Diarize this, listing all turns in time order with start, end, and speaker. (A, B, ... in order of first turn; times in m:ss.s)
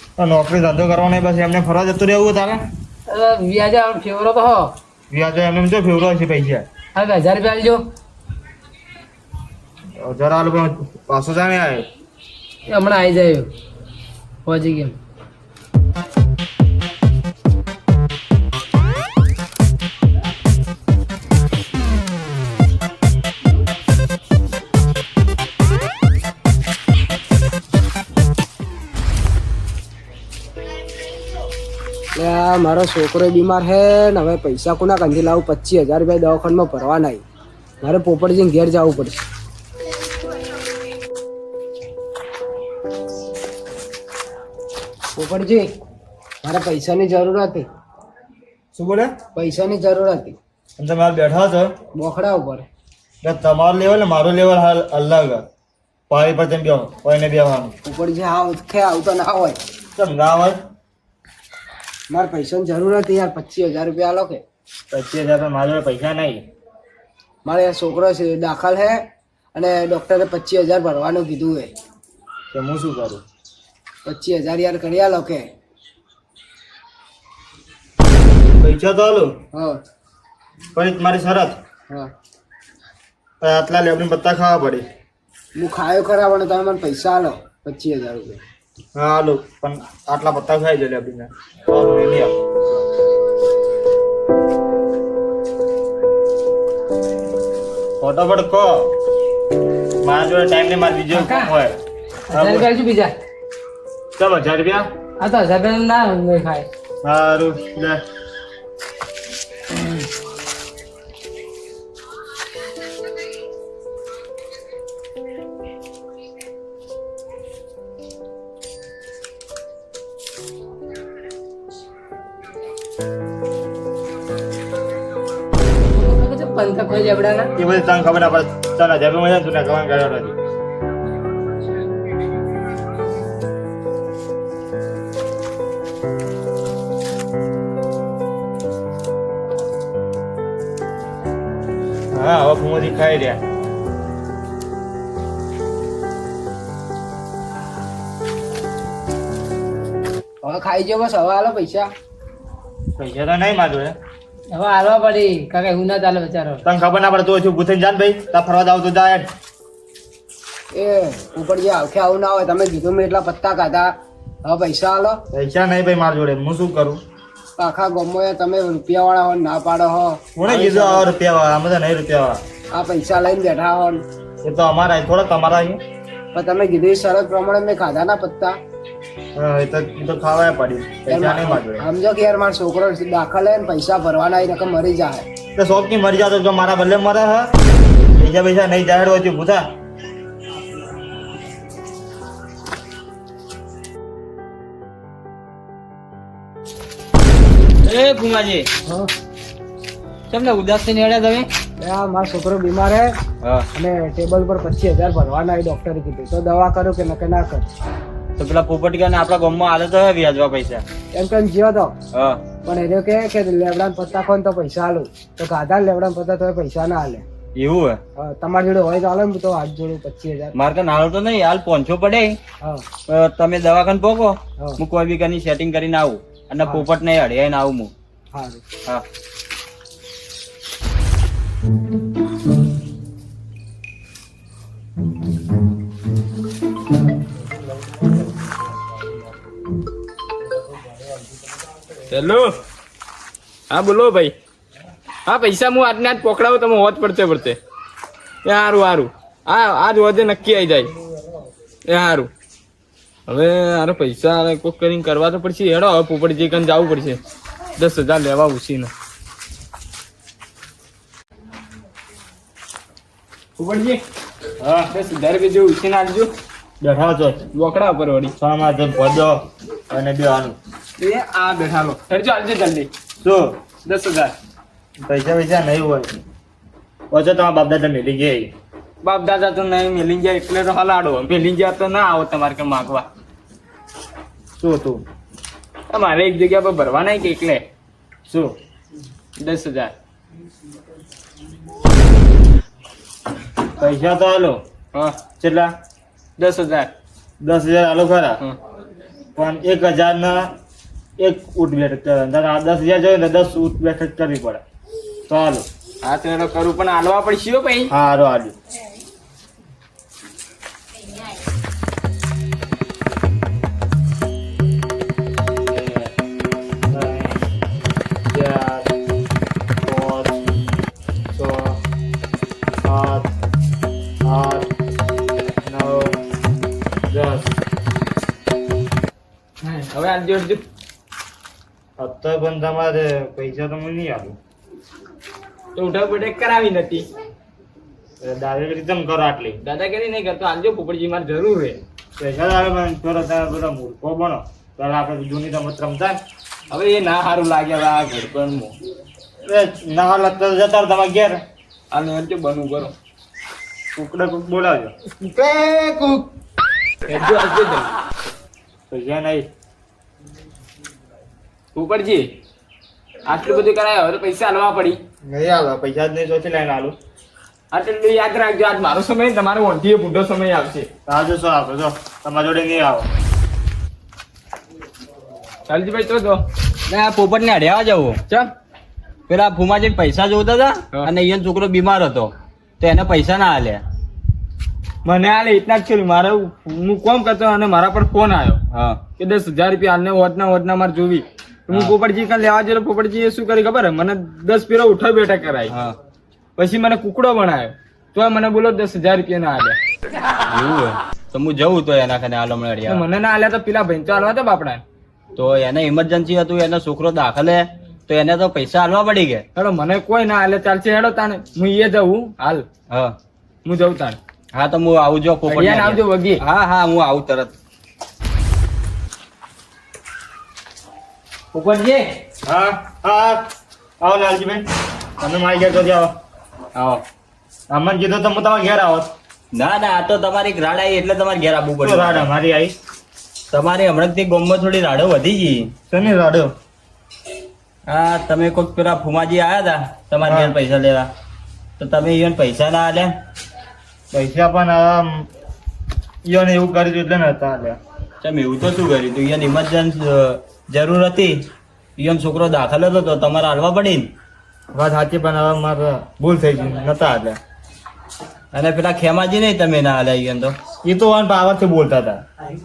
0:00.2-0:02.6 A
0:03.1-0:04.7 B
0:05.1-0:06.6 A
0:06.9-0:07.8 B
0:10.0-0:11.8 A
0:12.7-0:13.5 B
0:14.4-0:15.0 B
0:32.2-0:37.2 C
0:37.8-0:39.2 C
0:45.2-0:45.7 C
0:46.4-0:47.7 C
0:48.7-0:49.1 A
0:49.3-0:50.4 C
0:50.8-0:51.7 A
0:51.9-0:52.6 C
0:53.2-0:55.4 A
0:56.1-0:57.7 A
0:57.8-0:59.6 C
1:00.0-1:00.6 A
1:02.1-1:04.4 C
1:04.9-1:06.4 A
1:07.4-1:11.7 C
1:12.5-1:13.2 A
1:14.0-1:15.5 C
1:18.6-1:19.3 A
1:19.5-1:19.8 C
1:20.7-1:21.6 A
1:23.4-1:24.8 A
1:25.6-1:28.4 C
1:28.9-1:32.4 A
1:38.0-1:38.9 A
1:40.0-1:41.8 A
1:41.1-1:41.5 B
1:42.3-1:43.1 B
1:42.3-1:42.7 A
1:44.2-1:44.9 A
1:45.2-1:46.7 B
1:47.0-1:48.0 A
1:49.8-1:50.0 B
2:05.9-2:07.5 B
2:07.6-2:10.3 A
2:22.1-2:23.4 A
2:30.4-2:31.9 C
2:33.0-2:33.9 A
2:34.5-2:36.6 B
2:36.6-2:39.3 A
2:40.7-2:43.9 C
2:44.4-2:45.2 C
2:45.3-2:47.0 A
2:47.6-2:51.1 C
2:50.4-2:52.4 A
2:52.7-2:54.0 C
2:54.4-2:55.8 A
2:56.3-2:58.6 C
2:59.3-3:01.8 A
3:01.1-3:05.2 C
3:05.6-3:07.5 A
3:08.2-3:09.6 A
3:17.8-3:18.7 D
3:20.3-3:21.5 D
3:21.8-3:23.1 C
3:23.7-3:27.7 C
3:28.4-3:30.8 D
3:31.1-3:31.9 C
3:32.1-3:32.4 D
3:32.6-3:37.2 C
3:37.6-3:38.0 D
3:38.2-3:40.5 C
3:40.5-3:42.4 D
3:43.1-3:47.9 D
3:48.3-3:48.6 C
4:02.1-4:02.6 B
4:03.7-4:04.3 B
4:05.2-4:07.6 B
4:08.4-4:10.9 B
4:11.9-4:12.3 B
4:13.3-4:17.2 B
4:17.8-4:18.9 B
4:23.6-4:24.0 B
4:24.6-4:24.9 A
4:24.9-4:26.3 B
4:26.8-4:27.5 A
4:27.5-4:28.3 B
4:28.4-4:30.6 A
4:31.0-4:32.9 B
4:33.2-4:33.6 A
4:33.8-4:34.3 B
4:35.0-4:36.1 A
4:37.1-4:38.5 A
4:39.0-4:43.1 B
4:44.6-4:45.0 A
4:45.9-4:47.6 B
4:48.3-4:48.6 A
4:49.4-4:49.9 B
4:53.8-4:54.6 A
4:55.4-4:55.7 A
4:56.4-4:56.9 B
4:57.4-4:58.4 A
4:59.4-5:00.5 A
5:01.2-5:04.6 A
5:05.3-5:05.7 A
5:06.0-5:07.9 B
5:07.9-5:08.5 A
5:15.7-5:16.1 A
5:16.9-5:17.4 A
5:18.3-5:18.9 A
5:19.8-5:20.4 A
5:21.3-5:21.8 A
5:22.8-5:23.3 A
5:24.2-5:24.7 A
5:25.6-5:26.2 A
5:27.1-5:27.5 A
5:29.6-5:30.6 B
5:32.0-5:34.4 A
5:35.8-5:37.1 B
5:38.2-5:39.6 A
5:39.6-5:41.8 B
5:42.2-5:46.2 A
5:46.7-5:48.8 B
5:49.4-5:51.4 A
5:51.9-5:52.9 B
5:53.9-5:54.9 A
5:55.2-5:56.2 B
5:57.0-5:57.9 B
5:58.9-5:59.5 A
6:01.7-6:02.3 B
6:03.2-6:05.0 B
6:05.2-6:07.0 A
6:07.7-6:10.9 B
6:11.0-6:13.1 A
6:15.7-6:16.4 B
6:16.9-6:18.2 D
6:18.3-6:18.5 B
6:19.3-6:23.8 D
6:25.0-6:35.7 B
6:28.7-6:29.0 D
6:31.7-6:31.9 D
6:35.7-6:35.9 D
6:36.6-6:39.8 B
6:40.5-6:43.0 D
6:42.9-6:44.8 B
6:45.4-6:49.4 D
6:49.5-6:52.7 B
6:52.9-6:53.1 D
6:53.6-6:54.2 B
6:54.5-6:57.5 D
6:55.5-6:56.4 B
7:01.5-7:02.1 B
7:02.4-7:03.5 A
7:04.0-7:06.1 A
7:06.7-7:07.0 D
7:07.7-7:09.1 A
7:09.5-7:12.3 D
7:11.8-7:12.7 A
7:13.5-7:15.7 D
7:15.9-7:16.5 A
7:17.9-7:21.1 D
7:20.2-7:20.6 A
7:21.8-7:23.1 D
7:24.1-7:25.2 A
7:26.2-7:27.8 A
7:28.2-7:34.1 D
7:34.7-7:37.4 A
7:38.5-7:40.6 D
7:40.8-7:42.2 A